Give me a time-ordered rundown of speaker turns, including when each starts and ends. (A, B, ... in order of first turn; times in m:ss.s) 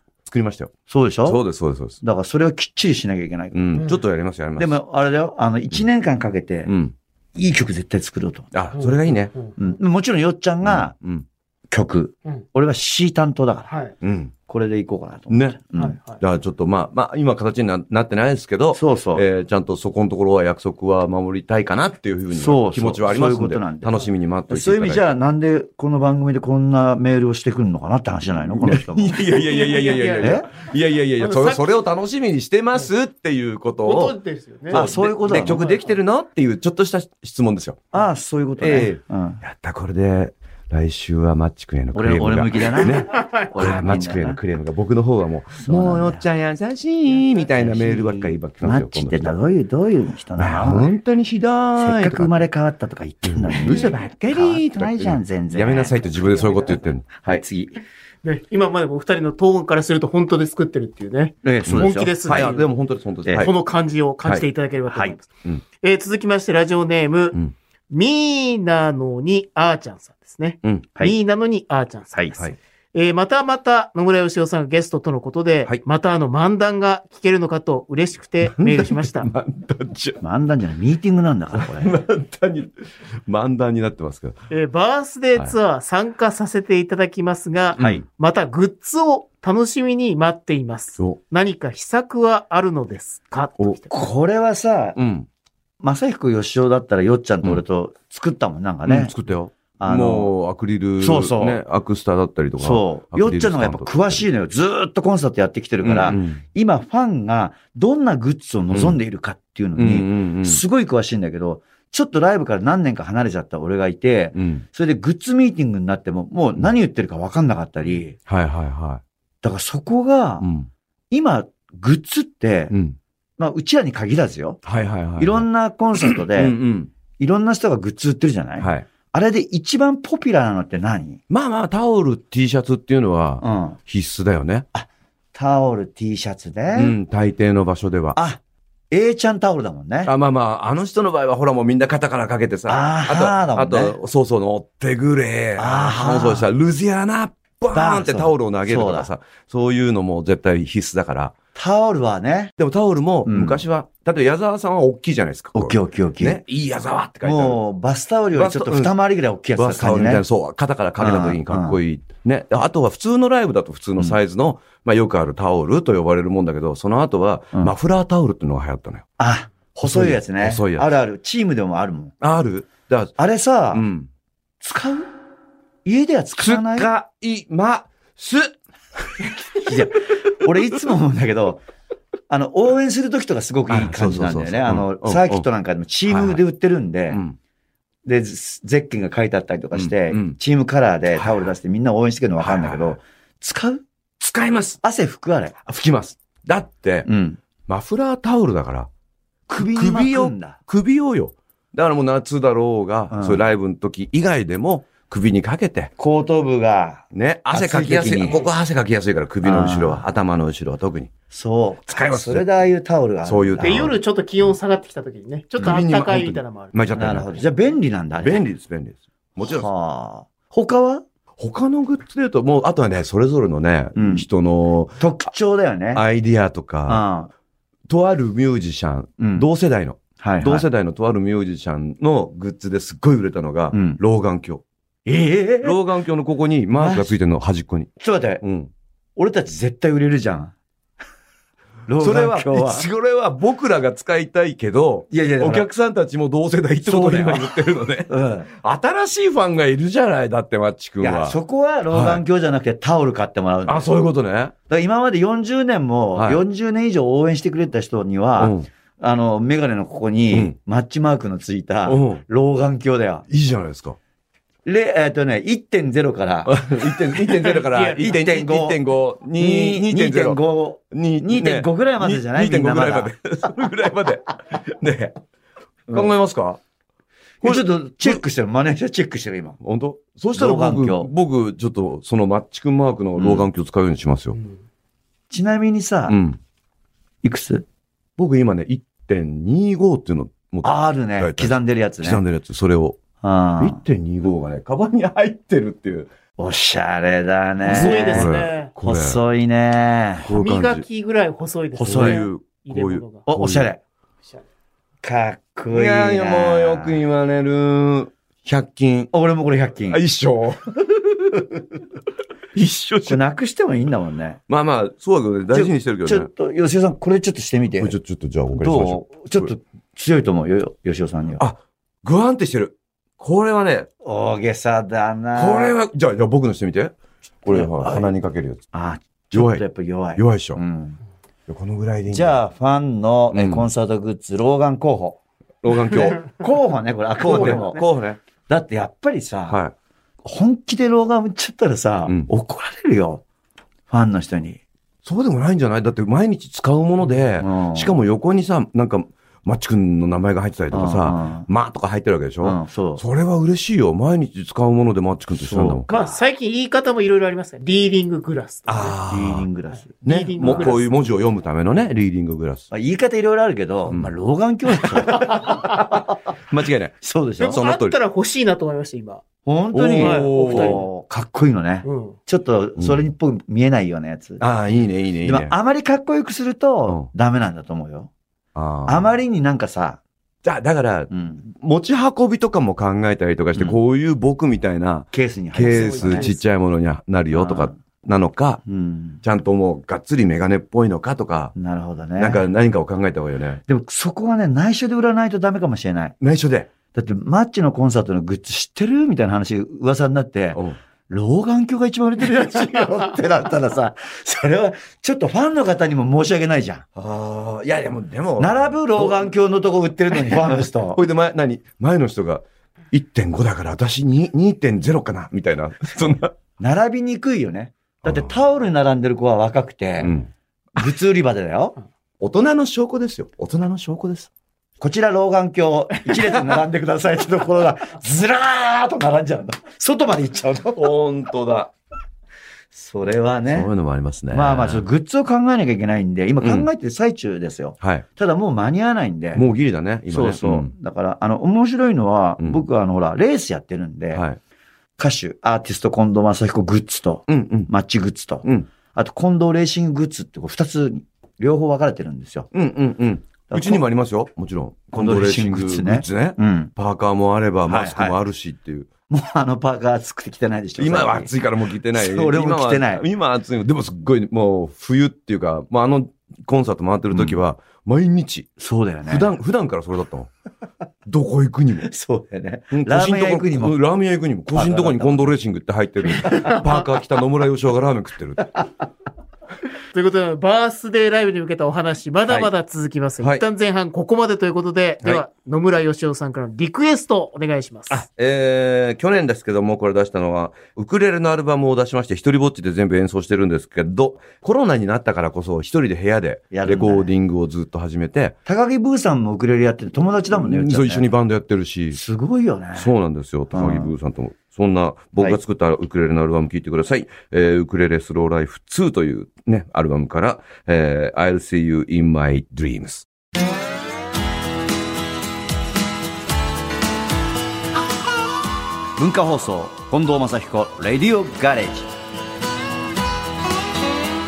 0:00.3-0:02.0 A
0:00.9-0:01.4 B
0:02.0-0:03.8 B
0:03.5-0:04.8 A
0:04.6-0:06.7 B
0:06.7-0:06.9 A
0:07.4-0:08.5 B
0:08.5-0:09.3 A
0:08.7-0:09.6 C
0:09.6-0:10.9 B
0:10.6-0:11.2 A
0:11.7-0:13.7 B
0:13.7-0:13.9 C
0:14.0-0:14.4 A
0:14.5-0:16.0 B
0:15.3-0:25.1 A
0:15.8-0:16.2 C
0:18.7-0:19.2 B
0:22.3-0:29.3 B
0:28.5-0:34.2 A
0:29.3-0:30.5 C
0:30.2-0:30.5 B
0:31.2-0:31.7 C
0:33.8-0:36.0 C
0:34.7-0:37.9 A
0:34.7-0:35.6 B
0:37.9-0:39.4 B
0:38.6-0:49.4 A
0:41.9-0:44.4 B
0:43.0-0:43.6 C
0:45.6-0:46.2 B
0:47.4-0:50.9 B
0:50.4-0:52.4 A
0:51.8-0:56.7 B
0:53.3-0:57.4 A
0:57.2-0:57.8 B
0:58.2-1:02.7 C
1:01.4-1:02.5 B
1:01.7-1:03.5 A
1:03.4-1:05.3 C
1:04.9-1:05.2 B
1:05.8-1:07.4 C
1:07.9-1:19.3 C
1:18.4-1:20.2 A
1:20.2-1:21.9 B
1:21.5-1:22.7 A
1:23.3-1:24.4 A
1:24.5-1:33.9 C
1:27.8-1:28.0 A
1:27.8-1:28.0 B
1:33.9-1:35.0 B
1:35.0-1:35.3 A
1:35.8-1:39.1 B
1:38.8-1:44.3 A
1:39.8-1:40.3 B
1:41.0-1:41.6 B
1:42.6-1:58.2 B
1:45.8-1:46.4 A
1:48.7-1:49.0 A
1:49.8-1:50.6 A
1:54.3-1:54.6 A
1:58.3-1:59.0 A
1:59.4-2:00.5 B
2:00.4-2:00.7 A
2:01.1-2:02.7 B
2:02.7-2:03.0 A
2:03.4-2:04.6 B
2:04.6-2:05.4 A
2:05.2-2:06.6 B
2:06.0-2:06.9 A
2:07.2-2:11.2 B
2:08.6-2:08.9 A
2:11.3-2:14.6 A
2:13.4-2:13.8 B
2:14.7-2:17.0 B
2:16.7-2:18.2 A
2:18.2-2:20.1 B
2:20.1-2:31.4 A
2:22.7-2:24.0 B
2:25.6-2:26.5 B
2:27.7-2:29.1 B
2:31.6-2:32.5 B
2:32.6-2:37.6 A
2:33.3-2:33.6 B
2:35.6-2:36.4 B
2:37.2-2:40.2 B
2:38.3-2:38.9 A
2:39.6-2:49.0 A
2:41.0-2:41.8 B
2:49.2-2:52.1 B
2:49.8-2:50.9 A
2:52.2-2:53.1 A
2:53.2-2:53.8 B
2:53.7-2:54.1 A
2:54.6-2:55.1 B
2:55.8-2:56.9 B
2:56.4-2:59.8 A
2:59.6-3:01.6 B
3:02.3-3:07.2 B
3:03.7-3:05.4 A
3:06.1-3:06.4 A
3:07.1-3:07.4 A
3:08.0-3:13.8 B
3:09.7-3:10.4 A
3:11.2-3:11.5 A
3:12.4-3:13.0 A
3:14.2-3:14.8 A
3:14.8-3:15.6 B
3:15.6-3:17.1 A
3:17.1-3:17.4 B
3:17.7-3:18.9 A
3:19.5-3:20.6 B
3:19.6-3:25.9 A
3:23.1-3:23.4 B
3:26.0-3:28.5 B
3:27.1-3:31.1 A
3:29.4-3:30.0 B
3:31.3-3:34.0 B
3:31.9-3:32.5 A
3:33.2-3:34.0 A
3:33.6-3:36.7 C
3:35.6-3:37.3 A
3:36.9-3:38.4 B
3:38.2-3:39.7 A
3:39.4-3:41.0 B
3:41.4-3:45.1 A
3:44.0-3:44.3 B
3:45.0-3:46.0 B
3:45.9-3:47.0 A
3:46.9-3:47.3 B
3:47.9-3:54.6 A
3:49.2-3:49.5 B
3:50.2-3:50.7 B
3:53.7-3:54.0 B
3:55.0-3:55.8 B
3:55.6-3:57.9 A
3:56.8-3:57.2 B
3:58.0-3:58.4 B
3:58.4-3:58.7 A
3:59.2-4:00.5 B
4:01.9-4:02.9 B
4:02.0-4:11.4 A
4:05.1-4:05.7 B
4:06.8-4:08.5 B
4:11.0-4:13.9 B
4:11.9-4:12.2 A
4:13.7-4:14.5 A
4:14.7-4:23.3 B
4:16.2-4:16.4 A
4:18.4-4:18.7 A
4:21.9-4:22.2 A
4:23.3-4:24.0 A
4:24.6-4:26.6 B
4:26.5-4:30.4 A
4:27.2-4:28.8 B
4:29.4-4:33.1 B
4:30.9-4:35.2 A
4:35.9-4:36.6 A
4:37.4-4:38.2 A
4:37.4-4:39.6 B
4:39.6-4:44.4 A
4:40.4-4:41.1 B
4:43.2-4:43.5 B
4:45.3-4:46.2 B
4:46.1-4:46.4 A
4:47.2-4:47.6 B
4:48.2-4:53.0 A
4:50.6-4:52.2 B
4:53.2-4:53.8 B
4:53.6-4:56.1 A
4:56.4-5:00.3 B
4:57.6-4:59.2 A
4:57.7-4:58.7 C
5:00.2-5:00.8 A
5:00.3-5:03.3 C
5:01.8-5:02.2 B
5:01.8-5:03.7 A
5:03.3-5:03.8 B
5:05.0-5:07.0 B
5:05.7-5:09.1 A
5:09.1-5:10.0 B
5:09.9-5:11.6 A
5:12.6-5:13.2 A
5:13.0-5:14.4 B
5:14.5-5:16.3 A
5:15.5-5:18.0 B
5:17.8-5:19.5 A
5:18.5-5:21.4 B
5:21.4-5:23.9 A
5:24.0-5:25.8 B
5:25.4-5:28.6 A
5:27.5-5:28.1 B
5:28.7-5:31.0 B
5:29.3-5:29.6 A
5:30.2-5:30.6 A
5:31.5-5:32.4 A
5:32.1-5:35.2 B
5:33.3-5:33.7 A
5:35.6-5:36.3 A
5:35.9-5:37.8 B
5:37.2-5:38.2 A
5:38.5-5:39.6 B
5:39.5-5:39.7 A
5:40.2-5:43.2 B
5:43.9-5:44.6 B
5:45.0-5:55.9 A
5:47.4-5:48.0 B
5:50.7-5:51.5 B
5:52.4-5:53.0 B
5:55.4-5:56.2 B
5:55.9-5:59.0 C
5:58.7-5:59.5 A
5:59.1-6:00.8 B
6:00.0-6:00.9 C
6:00.0-6:02.7 A
6:02.7-6:06.1 B
6:04.9-6:07.0 A
6:07.0-6:07.6 B
6:07.4-6:09.2 C
6:07.5-6:08.0 A
6:09.4-6:14.4 B
6:09.7-6:10.8 A
6:10.0-6:10.9 C
6:11.8-6:12.2 C
6:14.4-6:15.5 A
6:15.2-6:18.1 B
6:18.6-6:19.1 A
6:18.9-6:20.0 B
6:20.4-6:28.6 A
6:21.1-6:21.5 B
6:25.1-6:26.3 B
6:25.6-6:26.4 C
6:27.3-6:27.8 B
6:28.6-6:29.2 B
6:29.2-6:31.5 A
6:31.6-6:32.5 B
6:32.2-6:33.6 A
6:33.7-6:36.2 B
6:36.2-6:36.7 A
6:36.9-6:46.8 B
6:47.0-6:49.3 A
6:48.4-6:51.0 B
6:50.2-6:56.3 A
6:56.6-7:00.2 B
6:58.0-6:58.4 A
7:00.0-7:00.3 A
7:00.8-7:01.8 B
7:02.2-7:04.3 A
7:04.8-7:10.9 B
7:06.1-7:06.6 A
7:10.8-7:11.7 A
7:12.7-7:13.7 B
7:13.5-7:14.9 A
7:14.3-7:19.5 B
7:16.4-7:16.7 A
7:19.4-7:20.7 A
7:20.1-7:24.2 B
7:25.0-7:32.5 B
7:27.3-7:27.7 A
7:32.5-7:38.9 A
7:33.5-7:33.8 B
7:34.9-7:36.7 B
7:37.7-7:38.2 B
7:39.1-7:41.3 B
7:40.8-7:48.5 A
7:41.9-7:43.0 B
7:48.6-7:49.3 B
7:49.1-7:50.3 A
7:51.1-7:51.9 A
7:51.8-7:53.8 B
7:52.7-7:58.6 A
7:54.5-7:55.3 B
7:56.2-7:56.6 B
7:56.5-7:56.8 C
7:59.9-8:08.0 C
8:07.9-8:18.4 A
8:16.5-8:17.1 B
8:18.5-8:21.1 B
8:20.3-8:22.0 A
8:21.9-8:22.9 B
8:22.8-8:33.1 A
8:23.5-8:23.9 B
8:39.0-8:41.9 B